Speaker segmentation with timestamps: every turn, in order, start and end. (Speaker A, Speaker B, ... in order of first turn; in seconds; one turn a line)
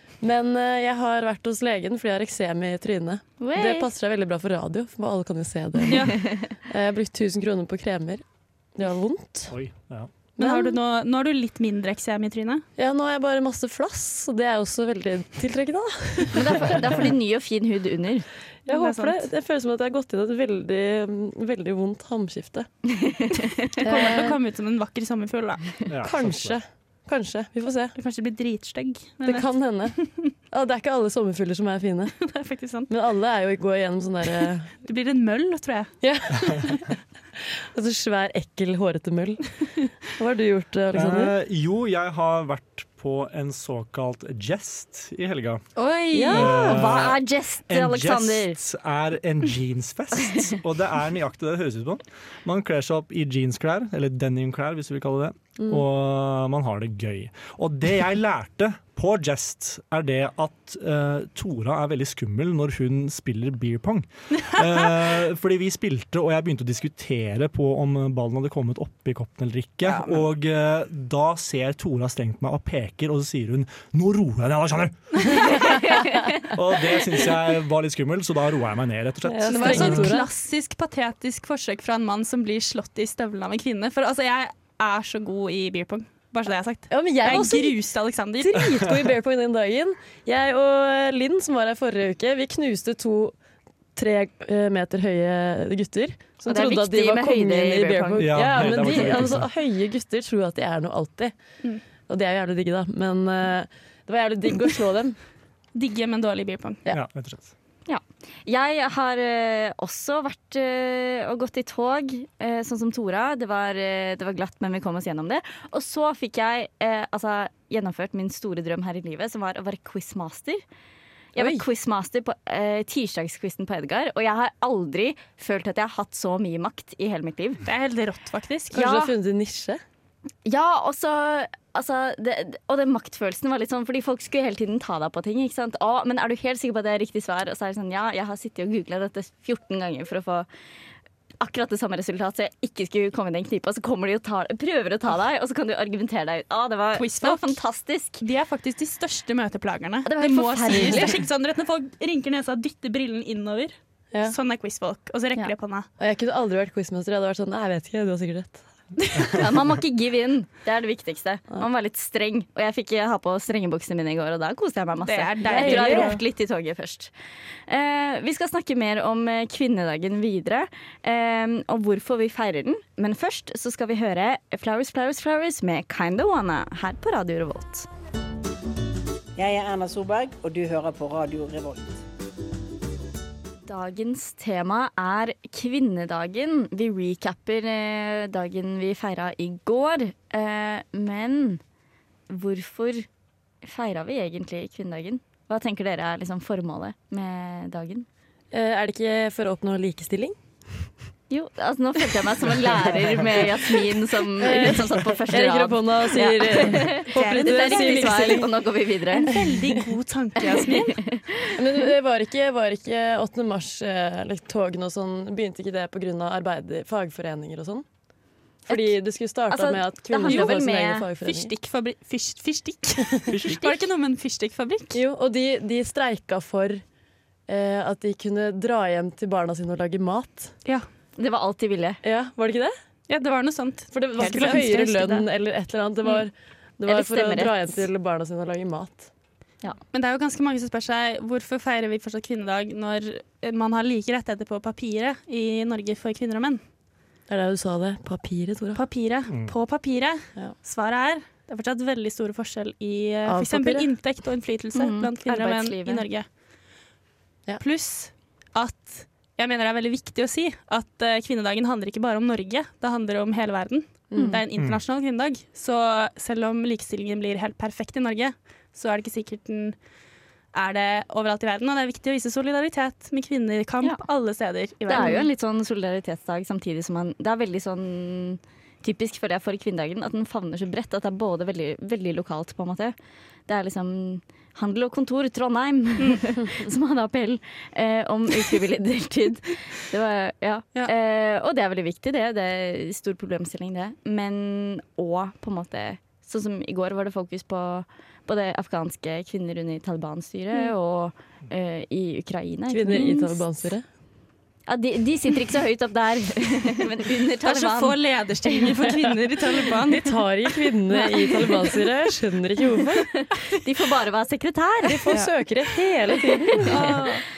Speaker A: 0.2-9.8
Speaker B: 3.4-3.9
Speaker C: 5.9-6.1
Speaker D: 9.5-10.1
Speaker C: 10.4-12.6
Speaker A: 10.4-10.8
Speaker A: 12.8-16.8
Speaker B: 16.3-18.3
Speaker D: 16.7-17.1
Speaker A: 18.7-22.7
Speaker C: 18.7-19.3
Speaker B: 23.1-23.8
Speaker C: 23.8-25.7
Speaker A: 23.8-24.4
Speaker D: 25.9-26.6
Speaker A: 26.0-27.9
Speaker C: 28.0-30.2
Speaker A: 29.2-32.2
Speaker C: 32.3-32.9
Speaker A: 32.9-34.7
Speaker C: 34.8-36.0
Speaker A: 36.0-41.3
Speaker D: 40.9-45.7
Speaker C: 45.8-46.8
Speaker A: 46.1-46.7
Speaker D: 46.3-75.8
Speaker B: 46.4-48.6
Speaker A: 55.6-55.8
Speaker B: 75.7-76.3
Speaker D: 76.4-80.2
Speaker A: 79.2-80.3
Speaker C: 79.5-88.6
Speaker A: 86.9-87.8
Speaker A: 88.4-93.4
Speaker A: 94.0-101.4
Speaker B: 96.5-99.4
Speaker D: 98.2-99.5
Speaker A: 102.1-105.2
Speaker C: 105.8-106.8
Speaker D: 106.9-107.5
Speaker B: 107.9-120.6
Speaker B: 121.3-127.6
Speaker A: 121.3-121.7
Speaker C: 127.7-129.1
Speaker A: 128.7-129.8
Speaker B: 130.4-140.5
Speaker B: 141.4-148.2
Speaker C: 146.9-147.6
Speaker C: 148.2-155.9
Speaker B: 150.1-151.2
Speaker A: 156.0-158.7
Speaker B: 159.3-167.1
Speaker C: 165.1-166.2
Speaker A: 165.4-166.2
Speaker B: 167.7-177.9
Speaker E: 179.4-182.0
Speaker B: 183.7-191.6
Speaker B: 192.3-193.1
Speaker B: 193.6-198.1
Speaker A: 198.5-200.3
Speaker B: 201.3-209.3
Speaker A: 204.4-208.5
Speaker C: 207.1-208.4
Speaker C: 209.2-211.0
Speaker A: 209.3-209.8
Speaker A: 211.6-217.9
Speaker A: 218.7-221.5
Speaker B: 219.5-221.1
Speaker C: 220.3-220.6
Speaker C: 221.2-225.0
Speaker D: 223.3-223.7
Speaker A: 224.9-226.8
Speaker A: 227.5-230.6
Speaker B: 231.2-232.0
Speaker A: 232.0-232.7
Speaker C: 233.1-235.2
Speaker A: 233.9-239.1
Speaker B: 236.9-237.8
Speaker C: 239.9-246.6
Speaker A: 247.3-248.8
Speaker C: 248.8-256.3
Speaker A: 253.2-253.9
Speaker B: 254.8-256.1
Speaker C: 257.6-269.8
Speaker A: 264.1-264.4
Speaker B: 264.1-264.4
Speaker C: 270.5-275.3
Speaker B: 274.9-282.9
Speaker A: 275.0-275.2
Speaker B: 283.5-303.4
Speaker A: 302.7-303.9
Speaker B: 304.7-308.9
Speaker C: 307.4-310.1
Speaker A: 310.0-313.2
Speaker B: 310.9-311.7
Speaker B: 313.5-315.1
Speaker A: 314.9-317.1
Speaker C: 316.7-317.2